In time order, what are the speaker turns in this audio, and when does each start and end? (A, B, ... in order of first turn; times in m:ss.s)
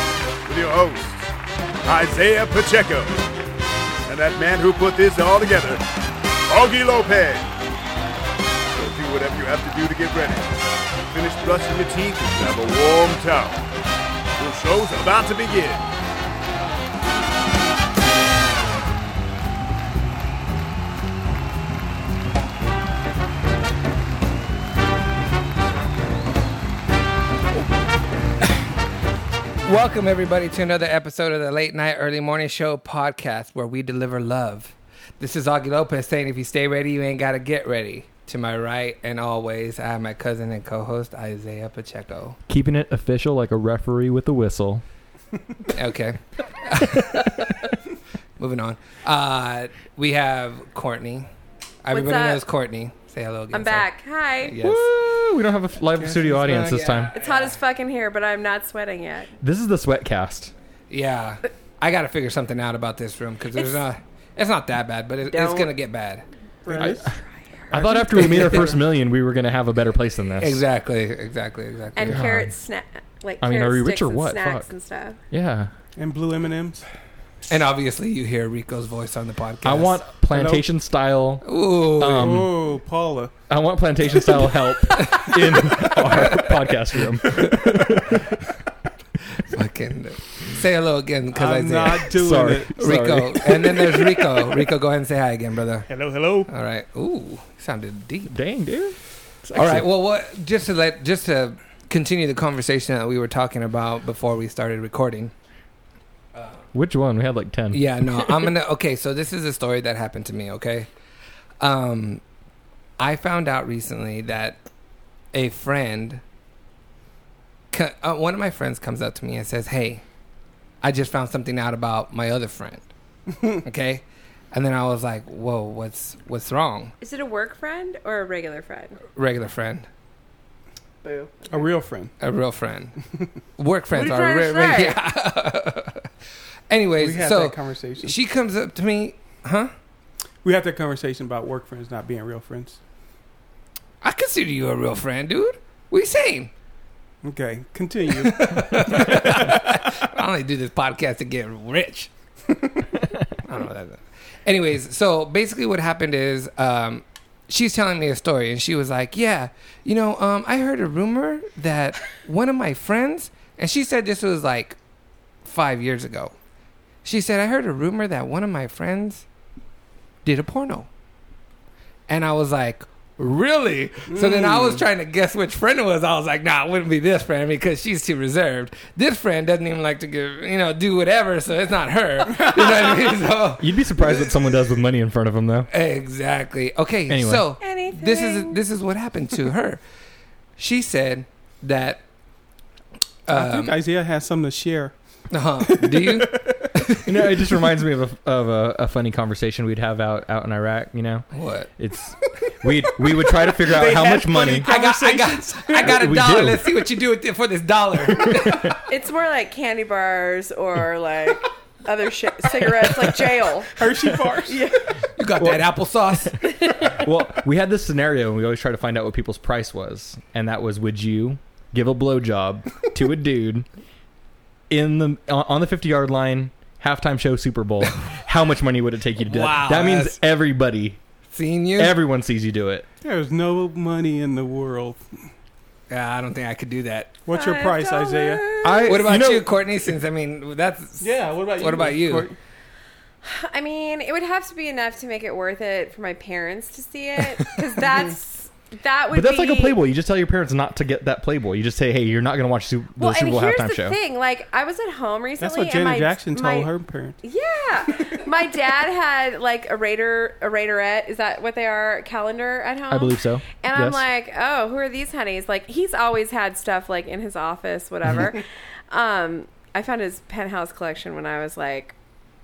0:00.5-0:01.3 A
0:01.8-0:03.2 A
0:04.1-0:05.8 A
0:06.5-0:07.4 A
0:08.8-0:10.5 A
0:11.1-0:13.6 A
0:14.4-0:15.8 A
0:29.6-0:42.4 B
0:42.5-0:44.8 C
0:45.7-0:47.7 B
0:48.4-0:51.3 B
0:51.8-0:53.9 B
0:51.9-0:52.4 D
0:53.5-0:54.5 D
0:54.4-0:54.9 B
0:54.6-0:57.1 C
0:56.0-0:56.8 E
0:56.6-0:57.6 B
0:57.2-0:59.3 D
0:59.4-1:00.5 C
1:00.9-1:06.2 B
1:05.3-1:05.7 D
1:06.6-1:07.1 E
1:06.7-1:07.2 C
1:07.7-1:10.6 C
1:07.7-1:08.8 E
1:10.4-1:12.3 B
1:12.0-1:15.2 D
1:12.0-1:12.5 C
1:13.4-1:14.7 C
1:15.3-1:15.7 C
1:16.0-1:16.8 E
1:17.5-1:20.1 B
1:19.6-1:22.6 C
1:20.3-1:20.6 E
1:21.4-1:22.5 B
1:22.2-1:23.3 E
1:23.5-1:28.4 C
1:25.0-1:26.4 B
1:29.5-1:32.1 B
1:31.3-1:33.1 E
1:32.1-1:33.8 C
1:32.8-1:35.9 B
1:35.9-1:36.5 E
1:36.5-1:38.4 B
1:38.3-1:39.9 C
1:39.6-1:45.3 B
1:46.7-1:47.8 C
1:47.7-1:50.9 B
1:51.6-1:52.2 B
1:53.0-1:54.6 B
1:55.3-1:56.2 B
1:57.7-2:00.0 B
2:00.8-2:02.8 B
2:03.6-2:06.9 B
2:07.0-2:09.0 D
2:09.2-2:09.9 B
2:11.0-2:11.3 D
2:11.5-2:12.1 E
2:12.2-2:13.0 B
2:13.6-2:16.1 B
2:13.9-2:15.0 D
2:16.7-2:19.7 B
2:17.0-2:18.2 E
2:20.4-2:22.8 E
2:24.0-2:26.5 B
2:27.2-2:29.7 E
2:28.2-2:32.1 B
2:33.4-2:44.8 B
2:45.4-2:46.3 B
2:47.0-2:49.2 B
2:50.2-2:50.9 B
2:52.1-3:04.6 B
2:54.1-2:54.8 E
3:02.4-3:02.9 E
3:03.6-3:05.7 C
3:05.7-3:09.8 B
3:07.1-3:07.4 C
3:07.6-3:08.6 D
3:10.6-3:12.0 B
3:13.3-3:13.8 B
3:13.3-3:14.9 E
3:15.3-3:17.2 B
3:15.7-3:16.6 E
3:17.0-3:21.3 C
3:21.3-3:21.7 B
3:21.8-3:24.7 C
3:23.0-3:26.0 E
3:24.7-3:28.8 B
3:25.8-3:26.6 C
3:28.2-3:28.7 C
3:28.9-3:33.7 D
3:33.8-3:34.6 E
3:34.5-3:34.9 D
3:35.2-3:36.4 B
3:35.4-3:43.7 C
3:36.4-3:36.9 D
3:44.7-3:51.0 C
3:49.2-3:50.2 B
3:51.3-3:52.0 B
3:51.8-3:52.9 C
3:53.0-3:55.1 E
3:55.9-3:57.2 B
3:57.3-3:58.4 E
3:57.3-3:59.0 D
3:58.6-3:59.6 C
3:58.9-4:02.3 B
4:01.0-4:02.4 E
4:03.2-4:09.8 D
4:07.2-4:07.5 C
4:09.1-4:14.0 C
4:13.0-4:32.0 D
4:15.4-4:17.2 E
4:22.9-4:24.0 C